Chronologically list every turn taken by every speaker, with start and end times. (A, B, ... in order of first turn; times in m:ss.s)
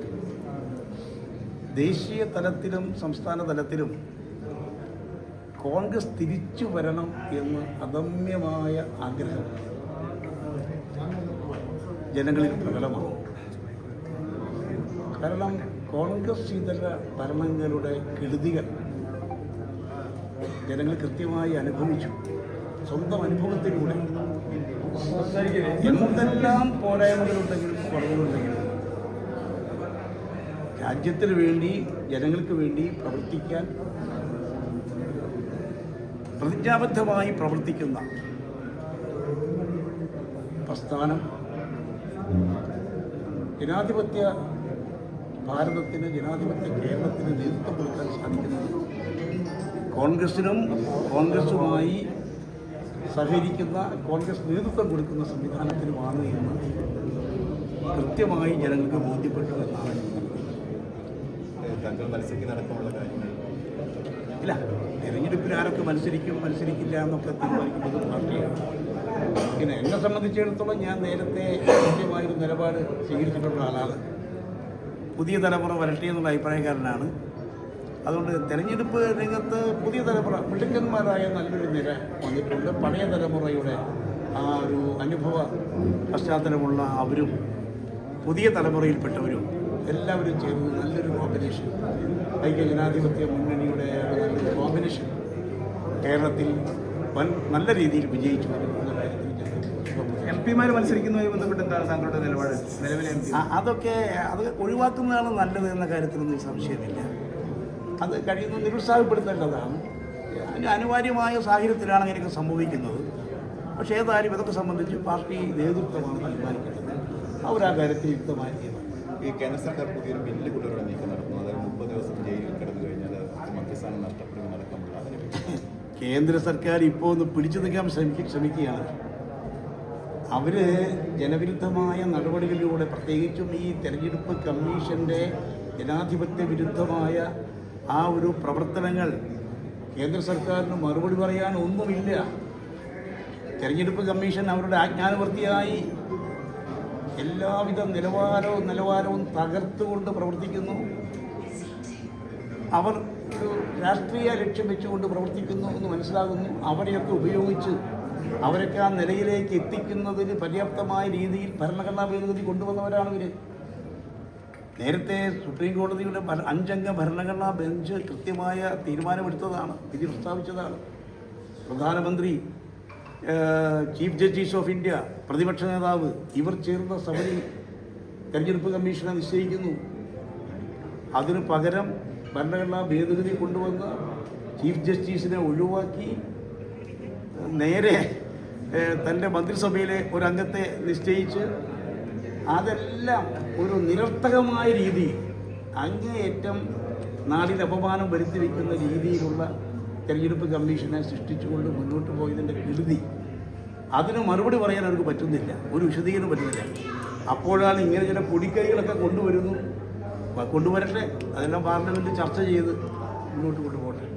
0:01.8-0:03.9 A
0:05.6-0:09.5 A
0:12.1-0:13.2 A
0:15.2-0:18.7 A
0:20.6-0:22.1 A
0:22.9-0:24.0 A
0:24.9-0:26.4 B
0:25.8-0:28.7 A
0:30.8-0:33.7 A
0:36.4-0:38.0 A
0:40.7-0:41.2 A
0:43.6-0:44.3 A
0:45.4-0:48.8 A
0:49.9-0:52.0 A
0:53.1-0:56.6 A
0:57.9-1:00.5 A
1:01.6-1:03.4 C
1:04.4-1:08.6 A
1:09.6-1:14.0 A
1:15.2-1:17.1 A
1:18.0-1:23.8 A
1:24.4-1:25.5 A
1:26.1-1:27.3 A
1:28.2-1:31.7 A
1:32.4-1:35.1 A
1:36.0-1:36.5 A
1:37.1-1:40.8 A
1:40.2-1:43.4 B
1:43.3-1:47.1 A
1:48.0-1:49.8 A
1:50.3-1:53.0 A
1:53.8-1:58.9 A
1:59.2-2:05.5 C
2:05.5-2:08.9 A
2:10.3-2:17.3 A
2:17.9-2:19.1 A
2:20.0-2:22.2 A
2:23.6-2:25.9 A
2:27.2-2:30.8 A
2:32.7-2:37.8 A
2:38.4-2:43.3 A
2:44.8-2:50.8 A
2:51.7-2:52.4 A
2:53.2-2:57.4 A
2:58.3-2:59.8 A
3:01.2-3:04.0 A
3:04.6-3:06.2 A
3:07.4-3:08.0 A
3:08.7-3:11.5 A
3:12.5-3:15.2 A
3:15.8-3:16.6 A
3:17.3-3:19.5 A
3:20.1-3:23.0 A
3:24.0-3:26.7 A
3:27.3-3:29.6 A
3:30.4-3:32.8 A
3:33.3-3:34.0 A